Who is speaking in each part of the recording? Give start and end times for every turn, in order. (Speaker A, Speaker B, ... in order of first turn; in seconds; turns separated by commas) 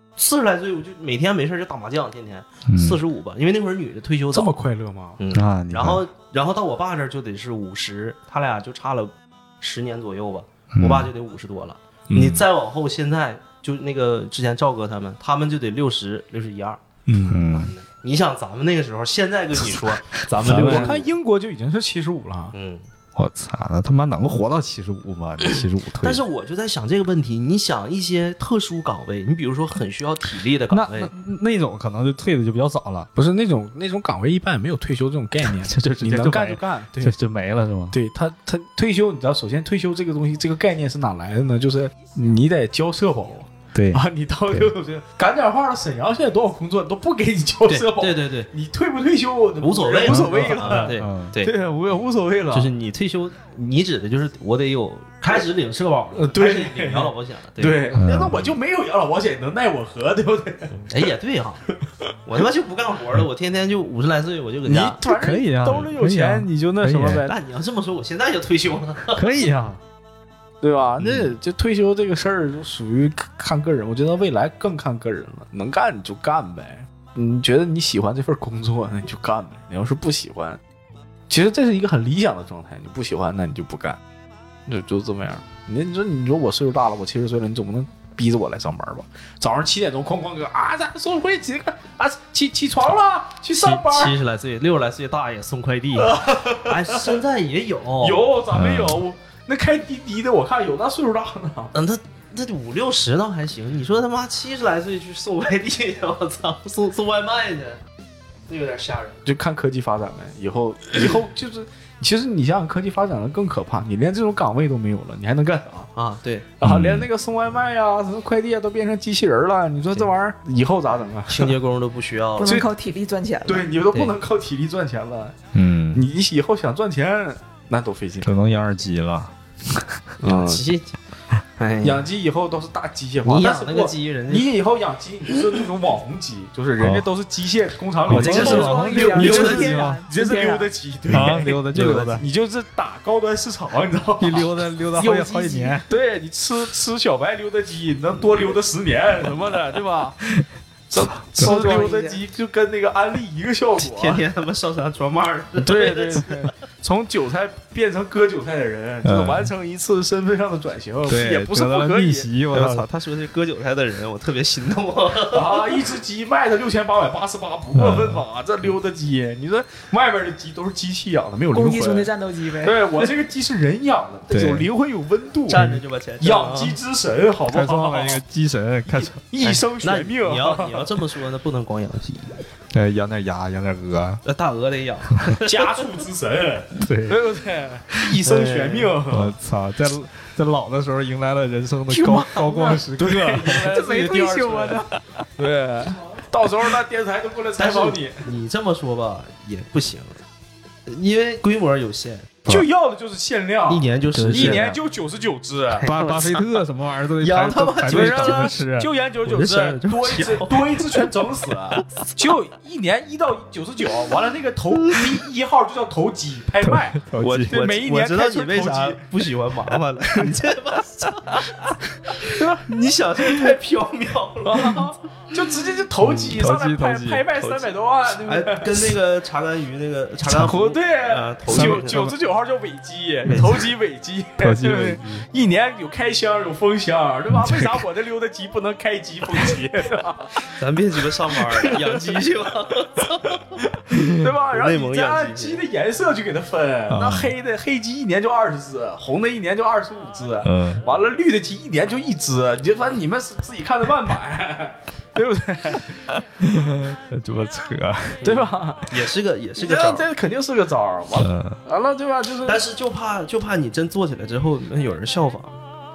Speaker A: 0.2-4.5, Speaker B: 2.7-3.0, Speaker C: 4.3-5.2, Speaker A: 5.2-16.8, Speaker B: 5.3-6.0, Speaker B: 10.7-11.1, Speaker C: 12.1-12.4, Speaker C: 17.1-17.4, Speaker B: 17.3-17.7, Speaker A: 17.5-21.1, Speaker B: 20.3-20.9, Speaker C: 20.4-22.5, Speaker A: 22.5-22.9, Speaker B: 23.1-26.2, Speaker A: 26.0-31.1, Speaker B: 30.7-33.1, Speaker C: 33.1-37.1, Speaker B: 35.4-38.0, Speaker C: 37.9-52.7, Speaker B: 43.7-44.7, Speaker A: 47.7-48.5, Speaker A: 49.6-51.5, Speaker B: 50.1-51.3, Speaker A: 52.5-58.0, Speaker C: 56.1-60.8, Speaker B: 57.9-58.5, Speaker A: 60.7-61.6, Speaker A: 62.2-65.0, Speaker C: 64.6-67.3, Speaker B: 65.0-67.2, Speaker A: 67.2-69.2, Speaker B: 69.1-69.8, Speaker C: 70.6-80.6, Speaker C: 81.3-84.0, Speaker C: 84.7-94.2, Speaker A: 93.6-98.2, Speaker C: 96.0-97.2, Speaker C: 98.0-101.7, Speaker B: 98.5-99.0, Speaker A: 101.7-107.8, Speaker A: 108.5-109.2, Speaker C: 109.2-115.9, Speaker A: 115.9-116.5, Speaker C: 116.6-121.5, Speaker B: 116.6-117.1, Speaker A: 121.3-122.5, Speaker D: 122.4-123.7, Speaker C: 122.4-122.7, Speaker C: 123.4-125.4, Speaker B: 125.5-126.0, Speaker C: 125.9-128.3, Speaker B: 128.2-130.1, Speaker C: 130.2-130.6, Speaker A: 130.2-130.9, Speaker A: 131.6-132.1, Speaker C: 131.8-144.5, Speaker A: 133.2-134.5, Speaker B: 136.8-137.1, Speaker B: 138.1-140.0, Speaker A: 138.1-139.6, Speaker D: 138.2-140.7, Speaker B: 141.1-142.2, Speaker A: 141.7-142.2, Speaker B: 144.2-145.9, Speaker D: 144.9-145.8, Speaker C: 145.9-150.2, Speaker C: 150.9-154.2, Speaker D: 151.4-152.2, Speaker A: 153.8-156.3, Speaker C: 155.6-162.3, Speaker B: 159.0-159.5, Speaker B: 161.1-162.8, Speaker A: 162.5-165.8, Speaker C: 165.3-178.2, Speaker B: 167.7-168.2, Speaker D: 171.5-172.8, Speaker B: 174.3-174.7, Speaker A: 175.5-176.8, Speaker B: 177.5-179.2, Speaker C: 178.9-181.0, Speaker A: 179.4-182.4, Speaker B: 182.7-184.2, Speaker A: 184.2-185.7, Speaker C: 185.4-189.3, Speaker B: 186.8-187.2, Speaker A: 188.2-188.9, Speaker B: 189.1-193.7, Speaker D: 191.9-192.8, Speaker C: 192.4-198.2, Speaker D: 193.6-194.9, Speaker A: 197.6-200.2, Speaker A: 200.9-202.3, Speaker C: 202.5-205.9, Speaker A: 203.7-204.8, Speaker B: 204.1-204.7, Speaker B: 205.8-208.9, Speaker A: 205.8-206.4, Speaker A: 207.2-208.6, Speaker C: 207.8-219.0, Speaker A: 209.2-211.1, Speaker B: 216.6-217.7, Speaker A: 217.2-221.6, Speaker A: 222.1-224.8, Speaker C: 222.2-222.7, Speaker C: 224.4-228.9, Speaker B: 226.3-227.2, Speaker A: 228.2-232.1, Speaker C: 230.2-240.6, Speaker B: 231.5-232.1, Speaker A: 233.2-233.6, Speaker B: 234.4-235.0, Speaker B: 237.3-237.8, Speaker A: 240.6-243.4, Speaker C: 241.3-242.2, Speaker C: 243.9-256.1, Speaker A: 244.5-245.6, Speaker B: 246.9-247.3, Speaker B: 250.4-250.8, Speaker B: 256.1-258.3, Speaker C: 258.2-262.6, Speaker A: 258.2-260.1, Speaker B: 261.2-261.6, Speaker A: 262.4-265.6